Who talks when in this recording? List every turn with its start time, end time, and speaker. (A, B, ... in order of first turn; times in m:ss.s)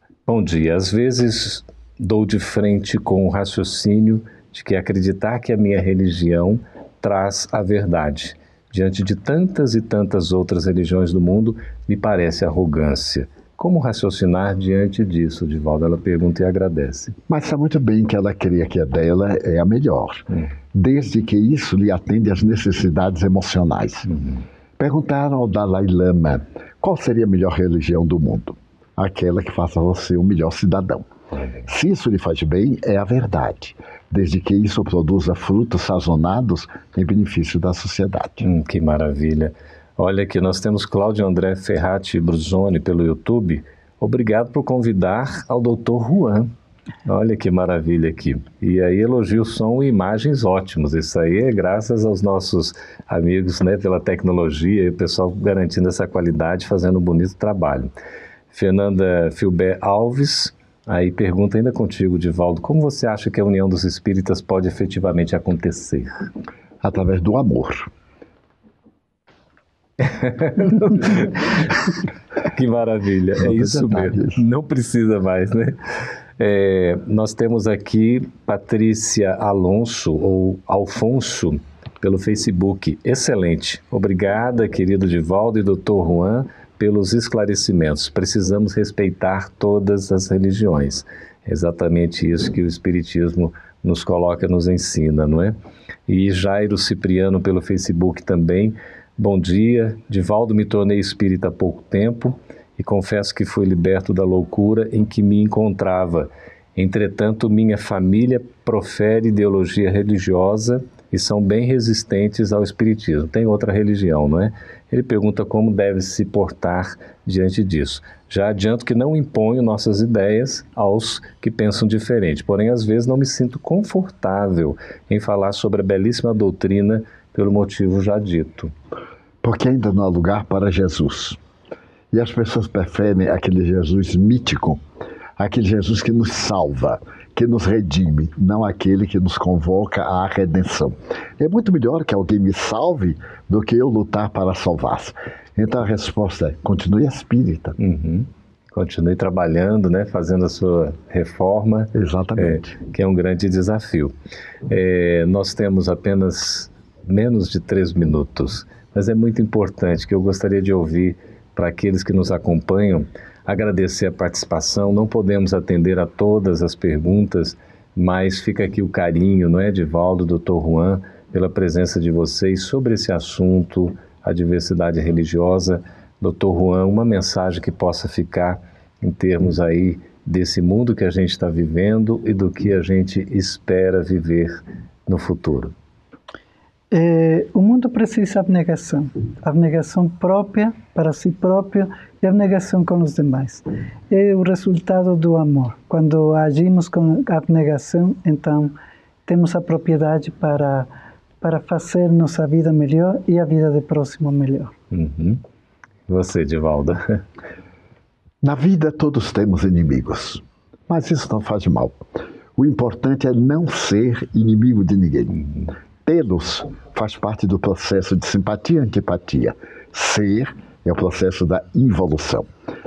0:00.3-0:17.2 A
0:17.3-0:24.1 B
0:24.1-0:24.5 A
0:24.8-0:31.1 B
0:31.4-0:31.6 A
0:31.7-0:38.5 B
0:38.4-0:46.5 A
0:47.0-0:57.9 A
0:58.5-1:06.3 A
1:06.8-1:07.9 B
1:10.0-1:15.8 A
1:13.4-1:14.4 B
1:16.4-1:35.6 A
1:36.1-2:08.7 A
2:09.4-2:11.4 B
2:12.1-2:14.8 B
2:15.4-2:27.8 B
2:27.8-2:34.2 A
2:31.9-2:32.7 B
2:34.7-3:05.7 A
3:06.9-3:18.8 C
3:19.3-3:20.9 C
3:21.4-3:24.7 C
3:24.9-3:25.4 A
3:26.1-3:27.2 A
3:28.4-3:32.0 B
3:32.6-3:35.4 B
3:35.4-3:35.7 A
3:36.1-3:42.5 B